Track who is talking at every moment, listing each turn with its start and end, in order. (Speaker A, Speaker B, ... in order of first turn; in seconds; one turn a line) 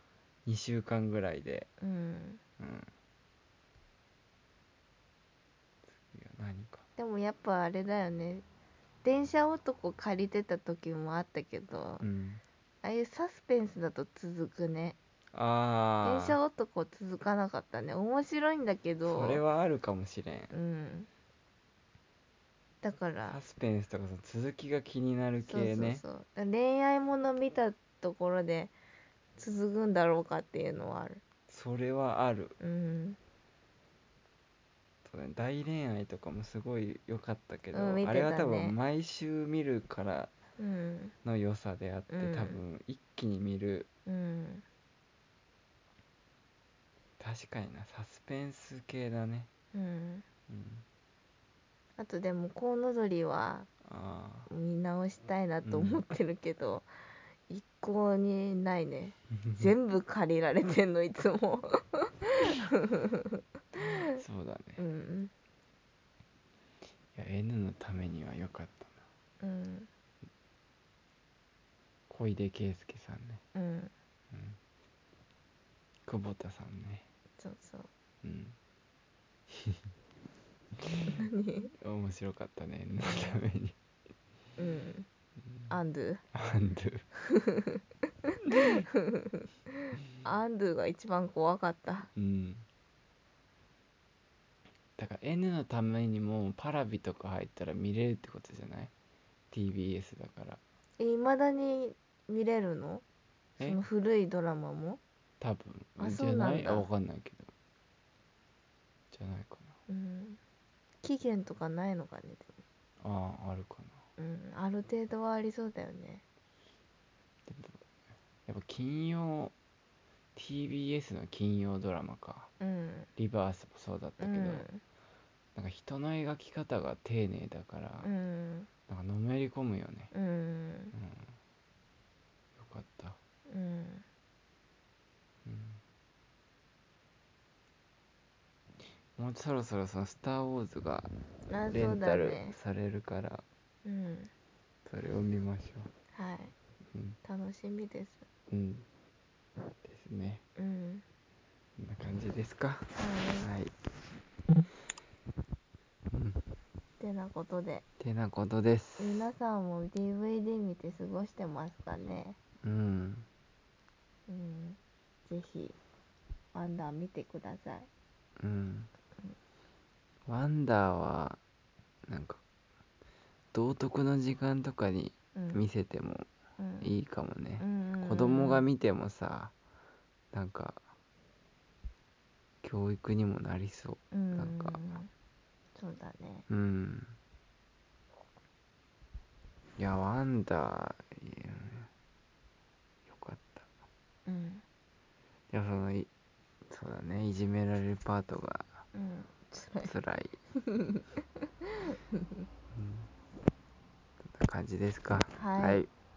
Speaker A: 0.5-1.7
Speaker B: 1.8-2.4
Speaker A: 2.6-2.9
Speaker A: 5.9-6.8
Speaker B: 7.0-8.4
Speaker B: 9.0-12.0
Speaker A: 12.0-12.4
Speaker B: 12.8-15.0
Speaker A: 15.3-16.4
Speaker B: 16.0-19.4
Speaker A: 19.0-20.5
Speaker B: 20.5-21.1
Speaker B: 22.8-23.4
Speaker A: 23.2-26.0
Speaker B: 25.4-28.7
Speaker B: 29.4-31.2
Speaker A: 31.5-32.5
Speaker B: 32.6-33.2
Speaker A: 35.0-40.3
Speaker B: 37.7-38.7
Speaker B: 40.6-41.1
Speaker A: 41.2-43.9
Speaker B: 42.1-42.6
Speaker B: 44.0-44.6
Speaker A: 47.2-49.5
Speaker B: 49.7-50.2
Speaker A: 50.5-50.8
Speaker B: 52.0-53.7
Speaker A: 53.8-54.5
Speaker B: 54.5-56.9
Speaker A: 55.6-56.0
Speaker B: 57.5-63.1
Speaker A: 59.4-59.6
Speaker A: 64.1-64.8
Speaker B: 64.8-65.3
Speaker A: 67.1-69.0
Speaker B: 69.4-69.9
Speaker A: 72.1-73.4
Speaker B: 73.5-73.9
Speaker A: 74.3-74.6
Speaker A: 76.0-77.0
Speaker B: 77.4-77.9
Speaker A: 78.2-78.5
Speaker A: 80.8-81.2
Speaker B: 81.1-81.7
Speaker A: 81.8-83.7
Speaker B: 83.0-83.4
Speaker B: 84.6-85.1
Speaker A: 85.4-85.7
Speaker B: 85.7-86.2
Speaker A: 86.3-87.0
Speaker B: 87.3-87.8
Speaker B: 88.8-89.4
Speaker B: 90.2-92.1
Speaker A: 92.1-92.7
Speaker A: 95.0-98.9
Speaker A: 99.5-100.6
Speaker B: 101.0-103.0
Speaker B: 103.6-105.0
Speaker A: 105.4-107.5
Speaker B: 106.0-106.9
Speaker A: 109.1-109.7
Speaker B: 109.9-110.4
Speaker B: 111.0-112.6
Speaker A: 113.0-114.0
Speaker B: 114.2-116.2
Speaker A: 117.5-117.8
Speaker A: 118.5-119.5
Speaker A: 120.3-122.5
Speaker B: 122.6-123.1
Speaker A: 123.2-124.7
Speaker B: 124.2-124.8
Speaker A: 125.5-128.1
Speaker B: 128.0-128.7
Speaker A: 128.9-130.1
Speaker B: 130.1-130.9
Speaker A: 130.9-131.3
Speaker A: 132.6-133.2
Speaker B: 133.5-134.0
Speaker A: 135.4-135.8
Speaker A: 139.2-141.1
Speaker B: 141.5-142.6
Speaker A: 141.7-143.4
Speaker B: 143.8-144.3
Speaker A: 144.8-145.9
Speaker B: 146.1-146.5
Speaker B: 147.2-148.3
Speaker A: 148.5-148.8
Speaker A: 149.8-150.4
Speaker B: 150.6-151.0
Speaker A: 151.8-153.7
Speaker B: 152.9-153.5
Speaker A: 156.1-156.4
Speaker B: 157.0-157.8
Speaker A: 158.0-159.2
Speaker B: 159.0-162.4
Speaker A: 162.6-163.2
Speaker B: 164.3-165.8
Speaker B: 166.5-167.9
Speaker A: 168.4-168.9
Speaker A: 170.3-171.4
Speaker A: 172.1-172.4
Speaker A: 173.5-176.3
Speaker B: 175.3-175.6
Speaker B: 176.6-176.9
Speaker A: 176.8-179.5
Speaker B: 177.6-178.7
Speaker A: 180.3-180.8
Speaker A: 182.6-185.0
Speaker B: 184.1-185.1
Speaker B: 185.8-186.5
Speaker A: 186.5-187.2
Speaker A: 189.8-191.9
Speaker A: 193.1-193.7
Speaker B: 194.2-194.6
Speaker A: 195.5-196.1
Speaker A: 196.7-198.8
Speaker B: 198.9-199.9
Speaker A: 199.7-200.4
Speaker B: 200.6-201.0
Speaker B: 201.9-202.4
Speaker A: 202.7-203.1
Speaker A: 204.2-205.9
Speaker B: 205.3-205.8